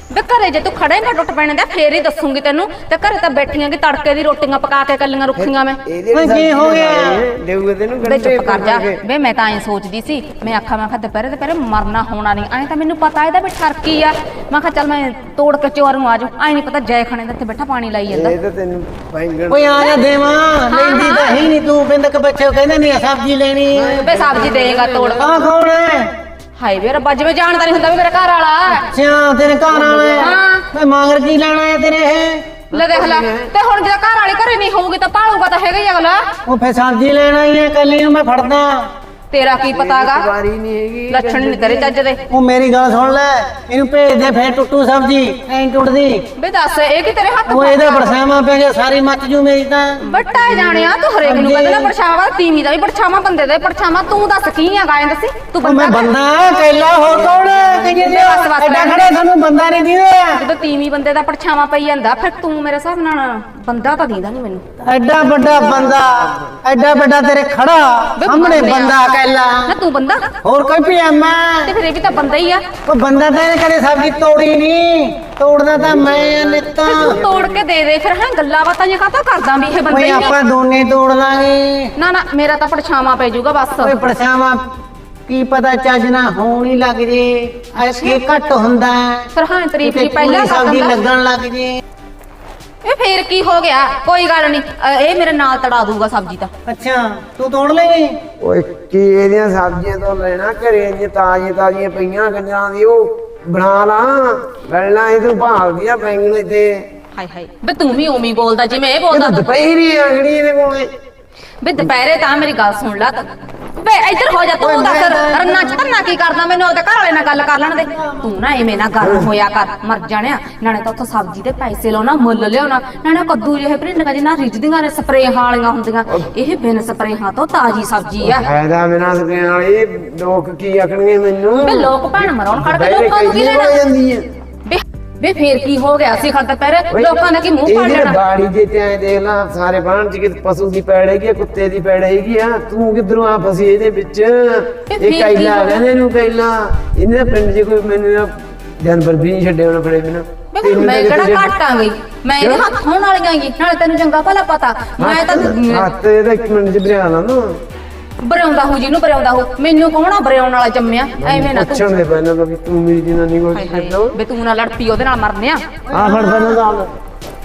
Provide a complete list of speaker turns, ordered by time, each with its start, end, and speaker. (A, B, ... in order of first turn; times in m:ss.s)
0:00.1-0:05.8 A
0:05.4-0:09.0 B
0:06.1-0:07.2 C
0:08.0-0:18.4 A
0:18.1-0:19.8 B
0:19.5-0:24.1 C
0:19.8-0:20.0 A
0:20.7-0:21.4 A
0:23.7-0:25.5 B
0:24.0-0:25.2 A
0:25.2-0:26.1 C
0:26.6-0:28.9 A
0:28.8-0:32.4 C
0:29.7-0:30.3 B
0:30.2-0:30.6 A
0:32.7-0:33.5 B
0:32.7-0:36.3 A
0:36.4-0:38.8 C
0:39.3-0:40.3 A
0:39.7-0:41.9 B
0:41.1-0:42.2 A
0:42.3-0:46.2 C
0:46.4-0:48.2 A
0:47.5-0:50.0 C
0:50.0-0:56.1 A
0:50.5-0:51.9 C
0:55.6-1:00.4 C
0:57.0-0:58.0 B
0:57.9-0:59.0 A
1:00.3-1:04.6 A
1:04.8-1:09.7 C
1:05.6-1:06.5 B
1:08.2-1:09.0 A
1:09.7-1:10.2 A
1:10.4-1:11.7 C
1:11.6-1:12.6 A
1:12.9-1:17.2 C
1:15.8-1:17.6 B
1:16.8-1:20.3 A
1:19.9-1:21.9 C
1:22.0-1:24.0 A
1:23.8-1:24.6 C
1:25.3-1:29.3 C
1:27.8-1:28.2 A
1:29.3-1:31.0 A
1:29.8-1:31.8 C
1:32.8-1:36.5 A
1:36.6-1:38.2 C
1:38.4-1:46.9 B
1:47.1-1:49.4 A
1:49.1-1:50.9 B
1:51.6-2:08.5 A
1:54.6-1:56.1 C
1:57.8-1:58.4 C
1:59.0-1:59.3 B
2:08.2-2:14.3 B
2:11.6-2:13.8 A
2:14.6-2:18.2 A
2:16.9-2:31.6 B
2:24.9-2:25.8 A
2:30.5-2:35.9 A
2:32.4-2:32.7 B
2:35.0-2:37.6 B
2:38.2-2:41.9 A
2:41.2-2:44.2 B
2:43.5-2:45.6 A
2:45.9-2:46.6 C
2:45.9-2:46.9 B